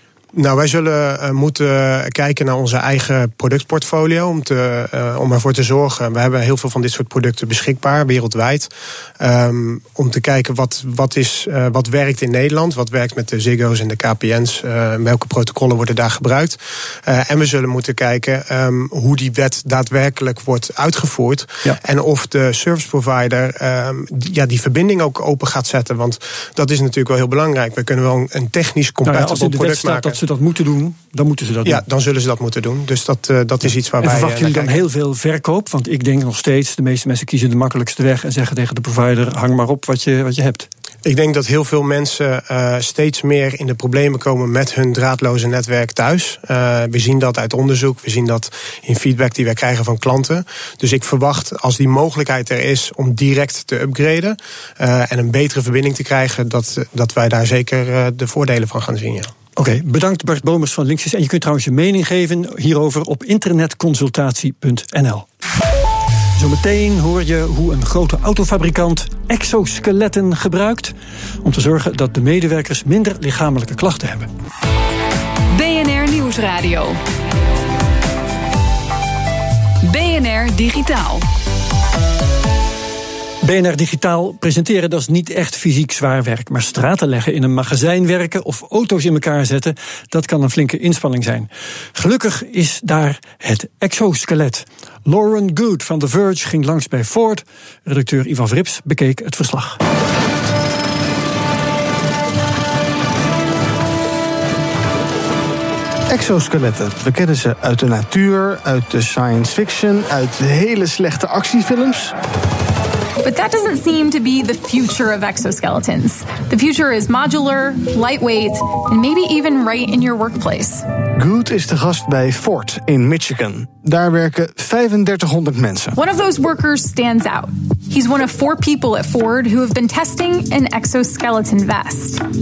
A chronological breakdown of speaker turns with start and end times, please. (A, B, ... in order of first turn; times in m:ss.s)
0:00.4-0:30.2 A
0:29.0-0:31.8 B
0:31.6-0:34.8 A
0:34.0-0:40.7 B
0:41.0-0:59.3 A
0:59.6-1:05.3 B
1:06.4-1:14.3 B
1:15.5-1:17.0 C
1:19.8-1:21.2 C
1:23.4-1:39.8 B
1:46.1-1:52.1 D
1:53.2-2:00.8 E
2:01.2-2:06.0 D
2:06.0-2:12.2 E